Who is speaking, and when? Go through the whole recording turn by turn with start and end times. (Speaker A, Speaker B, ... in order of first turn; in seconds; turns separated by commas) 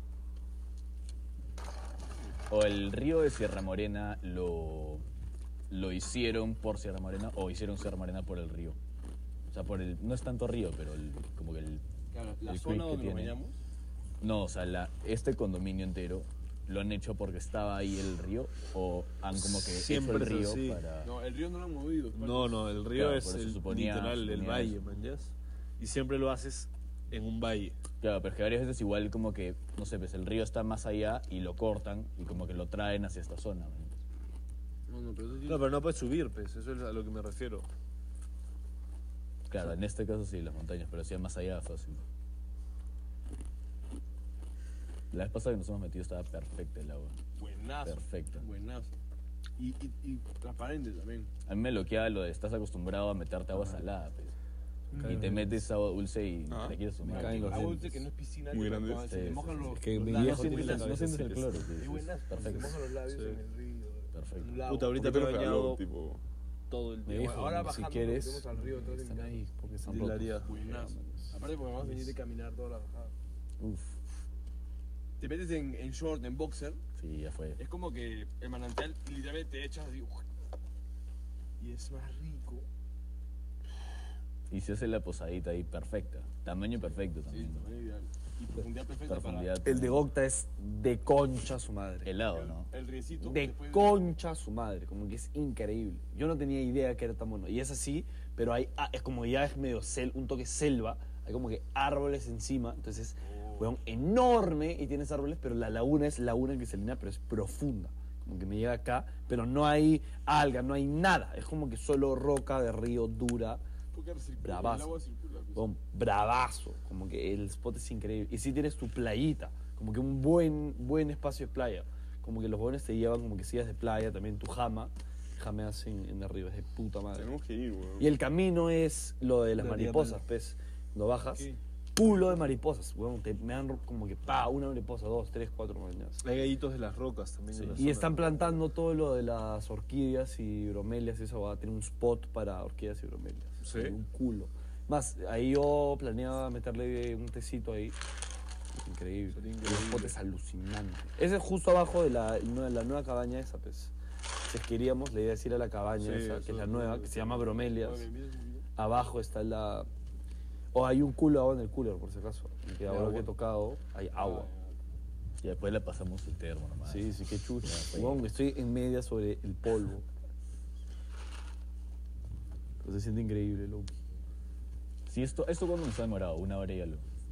Speaker A: 2.5-5.0, Speaker A: 5.7-8.8, Speaker A: 9.5-11.8, Speaker B: 12.1-13.6, Speaker A: 12.4-13.3, Speaker A: 14.2-21.1, Speaker C: 19.3-20.8, Speaker B: 21.0-22.7, Speaker C: 22.1-27.8, Speaker A: 22.9-24.8, Speaker A: 28.0-34.0, Speaker B: 34.9-35.6, Speaker C: 35.5-37.7, Speaker A: 39.5-42.0, Speaker A: 45.1-47.2, Speaker B: 47.4-48.9, Speaker A: 47.8-48.5, Speaker B: 49.6-51.3, Speaker A: 51.5-54.3, Speaker D: 53.5-53.8, Speaker B: 55.0-55.2, Speaker C: 55.0-55.4, Speaker D: 55.0-55.4, Speaker A: 55.0-57.9, Speaker E: 56.5-56.8, Speaker D: 57.0-58.0, Speaker B: 57.1-61.0, Speaker E: 58.5-59.1, Speaker A: 59.0-62.8, Speaker D: 59.7-61.4, Speaker C: 60.2-61.0, Speaker B: 61.7-65.0, Speaker C: 62.4-63.4, Speaker A: 64.1-64.7, Speaker C: 64.7-65.8, Speaker E: 64.9-66.2, Speaker C: 66.7-67.7, Speaker D: 67.0-71.4, Speaker B: 67.2-69.4, Speaker C: 69.8-70.5, Speaker B: 70.4-73.1, Speaker D: 73.6-74.0, Speaker B: 75.2-76.8, Speaker A: 77.0-77.6, Speaker B: 77.6-80.2, Speaker B: 81.6-82.7, Speaker A: 84.5-87.7, Speaker B: 87.3-89.5, Speaker A: 89.0-90.0, Speaker D: 89.6-92.1, Speaker A: 92.0-92.7, Speaker B: 92.3-94.1, Speaker D: 93.2-113.6, Speaker B: 103.3-103.6, Speaker B: 113.9-115.7, Speaker D: 114.4-114.9, Speaker D: 115.5-127.3, Speaker E: 127.1-128.1, Speaker D: 128.0-136.2, Speaker C: 129.6-130.2, Speaker C: 136.2-138.4, Speaker A: 137.5-137.8, Speaker D: 137.8-148.0, Speaker C: 143.6-144.0, Speaker D: 148.7-153.9, Speaker C: 149.3-150.1, Speaker D: 154.5-158.1, Speaker C: 156.0-157.5, Speaker B: 157.6-158.7, Speaker D: 158.8-159.9, Speaker D: 160.7-164.5, Speaker C: 162.9-163.3, Speaker B: 164.1-164.7, Speaker A: 165.4-168.2, Speaker D: 166.8-170.0, Speaker D: 172.8-173.9, Speaker A: 175.1-177.0